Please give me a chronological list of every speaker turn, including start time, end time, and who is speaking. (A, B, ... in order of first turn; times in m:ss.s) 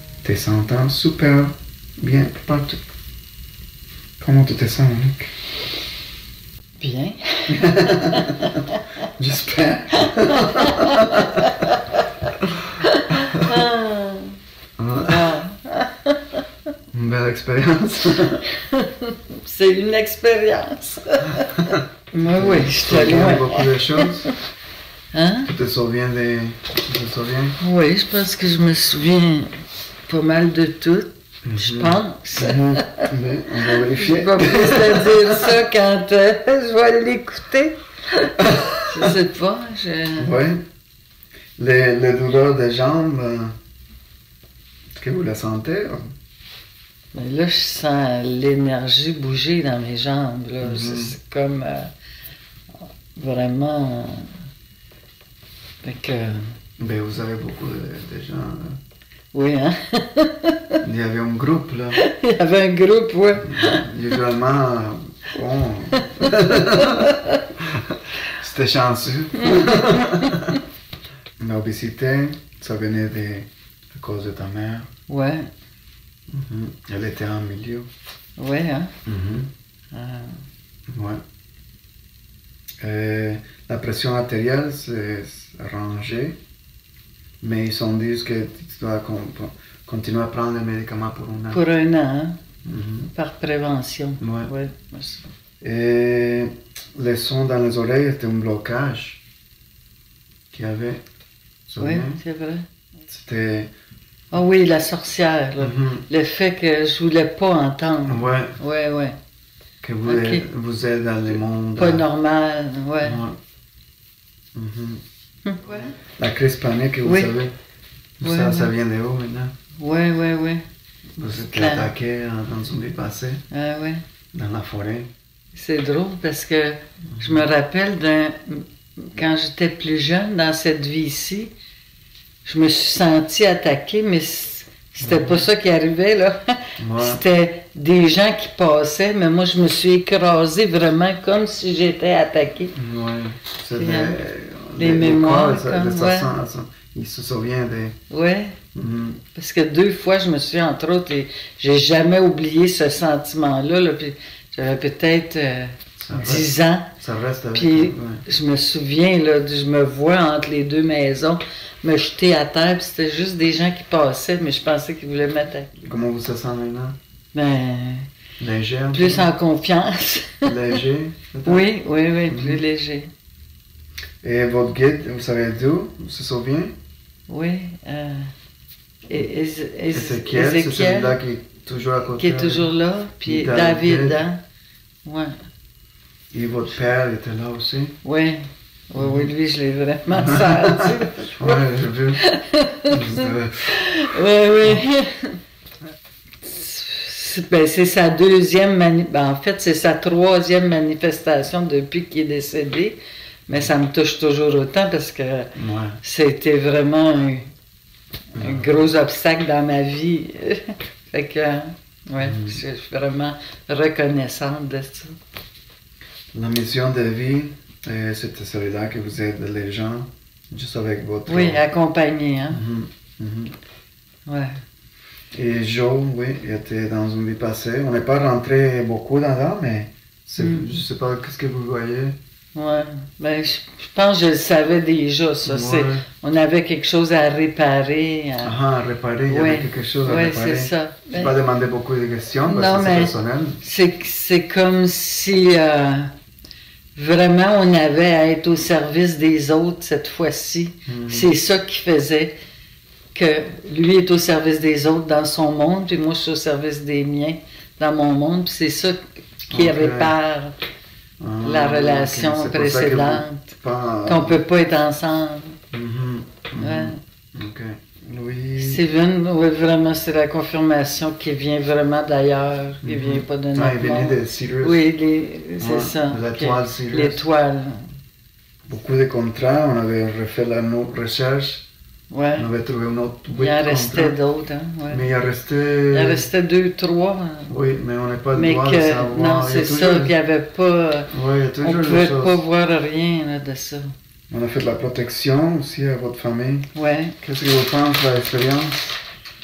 0:00.2-0:02.8 A
0:04.2-0:05.3 A
0:06.8-0:08.8 B
0:07.5-0:08.6 A
0:09.2-0:11.6 A
0:10.0-0:12.1 B
0:12.8-0:14.4 B
0:14.8-0:15.4 A
0:15.1-0:16.4 B
0:16.9-0:18.4 A
0:18.5-0:24.3 B
0:22.3-0:24.3 A
0:25.1-0:25.5 B
0:25.5-0:27.6 A
0:27.6-0:29.5 B
0:30.1-0:33.1 B
0:31.4-0:35.6 A
0:33.7-0:40.4 B
0:38.4-0:39.1 A
0:40.2-0:40.6 A
0:41.6-0:43.6 A
0:45.0-0:46.1 A
0:47.1-0:51.9 B
0:50.6-0:51.2 A
0:53.2-0:54.4 B
0:55.8-0:56.5 B
0:56.8-0:58.8 A
0:59.3-1:00.8 B
1:00.8-1:02.0 A
1:02.0-1:03.9 B
1:03.4-1:07.1 A
1:05.9-1:07.4 B
1:07.6-1:10.6 A
1:09.4-1:10.6 B
1:11.4-1:14.9 A
1:15.1-1:15.5 B
1:16.3-1:17.9 A
1:18.4-1:18.9 B
1:19.1-1:19.5 A
1:19.9-1:20.4 B
1:20.9-1:21.2 A
1:22.8-1:26.4 A
1:27.4-1:31.6 A
1:31.5-1:32.4 B
1:32.6-1:33.1 A
1:33.1-1:35.3 B
1:34.2-1:34.5 A
1:35.6-1:39.2 A
1:40.5-1:41.0 A
1:41.7-1:42.2 A
1:41.8-1:42.7 B
1:43.1-1:43.7 A
1:44.3-1:49.2 B
1:45.6-1:46.1 A
1:48.1-1:48.6 A
1:49.8-1:52.1 A
1:50.0-1:50.5 B
1:51.3-1:53.2 B
1:53.0-1:53.4 A
1:54.5-1:55.0 A
1:55.4-1:56.0 B
1:56.0-1:57.5 A
1:57.0-1:57.4 B
1:58.2-1:59.5 A
1:58.2-1:58.7 B
1:59.8-2:00.6 B
2:01.2-2:03.4 A
2:01.3-2:01.9 B
2:03.5-2:04.0 B
2:04.3-2:05.1 A
2:05.5-2:11.5 B
2:07.1-2:07.5 A
2:12.4-2:22.8 B
2:15.0-2:15.5 A
2:16.8-2:17.2 A
2:22.8-2:28.0 A
2:23.7-2:24.2 B
2:24.8-2:26.3 B
2:28.1-2:28.6 B
2:28.8-2:29.2 A
2:29.3-2:37.0 B
2:36.0-2:38.3 A
2:37.5-2:45.7 B
2:45.8-2:47.0 A
2:47.3-2:48.1 B
2:48.4-2:49.3 A
2:48.9-2:50.8 B
2:50.4-2:51.7 A
2:51.4-2:53.1 B
2:52.3-2:52.6 A
2:54.2-2:56.8 A
2:57.3-2:58.3 B
2:59.1-3:01.2 B
2:59.9-3:02.7 A
3:02.1-3:04.4 B
3:03.2-3:04.2 A
3:05.0-3:05.4 B
3:06.3-3:08.0 A
3:08.0-3:11.6 B
3:09.0-3:09.3 A
3:10.1-3:12.2 A
3:12.2-3:15.4 B
3:12.9-3:13.8 A
3:16.4-3:27.5 B
3:25.6-3:26.0 A
3:28.4-3:28.8 A
3:28.4-3:35.2 B
3:32.2-3:32.6 A
3:36.3-3:41.6 A
3:41.3-3:42.6 B
3:42.5-3:43.6 A
3:44.3-3:44.6 B
3:45.3-3:52.2 A
3:50.4-3:50.8 B
3:52.5-3:58.6 B
3:55.4-3:56.0 A
3:58.4-4:03.6 A
3:59.3-4:01.4 B
4:02.5-4:06.1 B
4:07.0-4:12.3 B
4:10.9-4:11.3 A
4:13.1-4:20.5 B
4:19.5-4:20.2 A
4:21.2-4:24.4 A
4:21.4-4:23.5 B
4:24.0-4:25.6 B
4:25.7-4:28.8 A
4:26.6-4:27.0 B
4:28.6-4:37.9 B
4:32.8-4:34.9 A
4:35.6-4:37.2 A
4:38.6-4:41.7 A
4:42.1-4:42.5 B
4:42.4-4:44.2 A
4:43.4-4:45.1 B
4:44.9-4:46.3 A
4:45.9-4:47.5 B
4:47.5-4:50.2 A
4:48.3-4:53.9 B
4:51.1-4:52.4 A
4:54.3-4:56.7 A
4:56.7-4:57.2 B
4:57.2-4:59.0 A